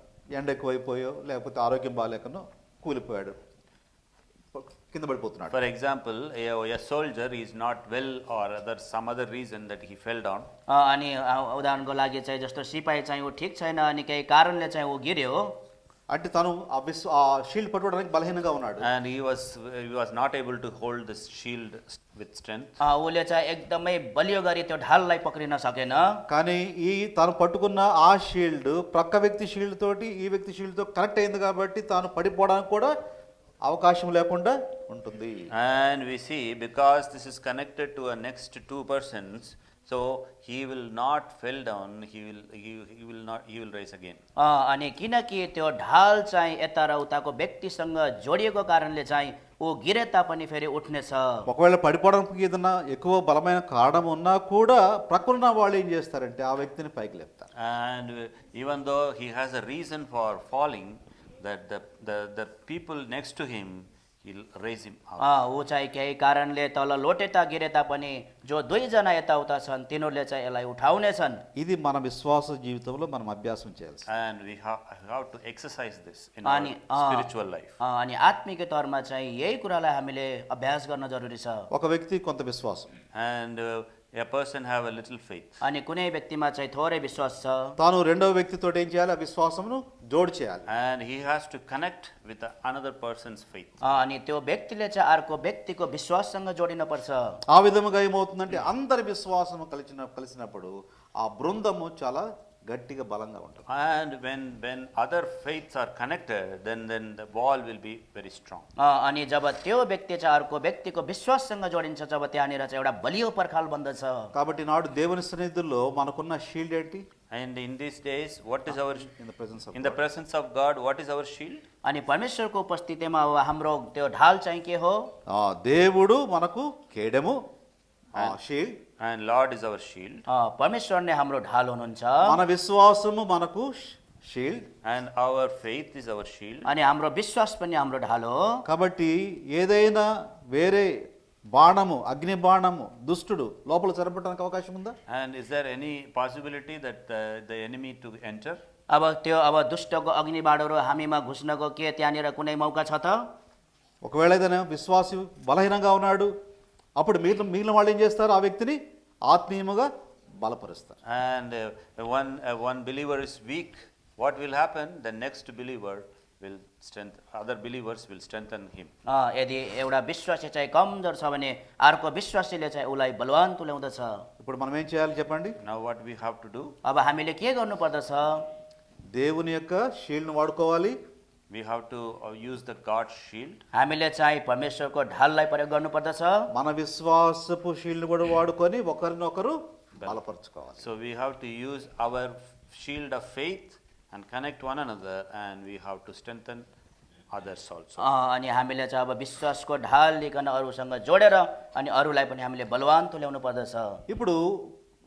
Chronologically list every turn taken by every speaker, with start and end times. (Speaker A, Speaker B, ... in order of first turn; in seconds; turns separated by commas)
Speaker A: 0.3-3.4, Speaker A: 4.5-5.6, Speaker B: 5.5-10.5, Speaker C: 10.7-15.5, Speaker A: 16.1-18.9, Speaker B: 18.8-22.7, Speaker C: 22.8-26.2, Speaker A: 26.3-32.9, Speaker A: 33.6-35.5, Speaker B: 35.5-44.2, Speaker C: 44.4-51.5, Speaker A: 51.5-57.5, Speaker B: 57.6-65.3, Speaker C: 65.2-71.4, Speaker A: 71.6-74.0, Speaker B: 74.1-77.8, Speaker C: 76.5-77.3, Speaker C: 77.8-81.7, Speaker A: 81.7-82.9, Speaker B: 83.1-85.5, Speaker C: 85.6-87.8, Speaker A: 87.8-90.7, Speaker B: 90.7-93.8, Speaker C: 93.8-97.4, Speaker A: 97.5-103.7, Speaker B: 103.7-108.7, Speaker C: 108.8-114.3, Speaker A: 114.3-117.0, Speaker B: 117.3-119.1, Speaker A: 119.1-120.0, Speaker B: 119.7-121.7, Speaker C: 121.8-125.0, Speaker A: 125.3-127.4, Speaker A: 128.2-128.8, Speaker B: 129.0-130.2, Speaker C: 130.3-132.4, Speaker A: 132.2-134.7, Speaker B: 134.8-136.7, Speaker C: 136.7-138.6, Speaker A: 138.7-140.9, Speaker A: 141.5-144.9, Speaker B: 145.1-148.6, Speaker C: 148.9-153.2, Speaker A: 154.0-156.3, Speaker A: 157.0-159.9, Speaker A: 160.4-161.0, Speaker B: 161.1-168.9, Speaker C: 169.1-174.2, Speaker A: 174.4-175.6, Speaker B: 175.6-176.8, Speaker C: 176.8-178.4, Speaker A: 179.1-181.0, Speaker B: 181.5-183.6, Speaker C: 183.7-186.5, Speaker A: 186.5-190.9, Speaker B: 190.8-196.7, Speaker B: 197.3-198.1, Speaker C: 198.0-204.0, Speaker A: 204.1-204.7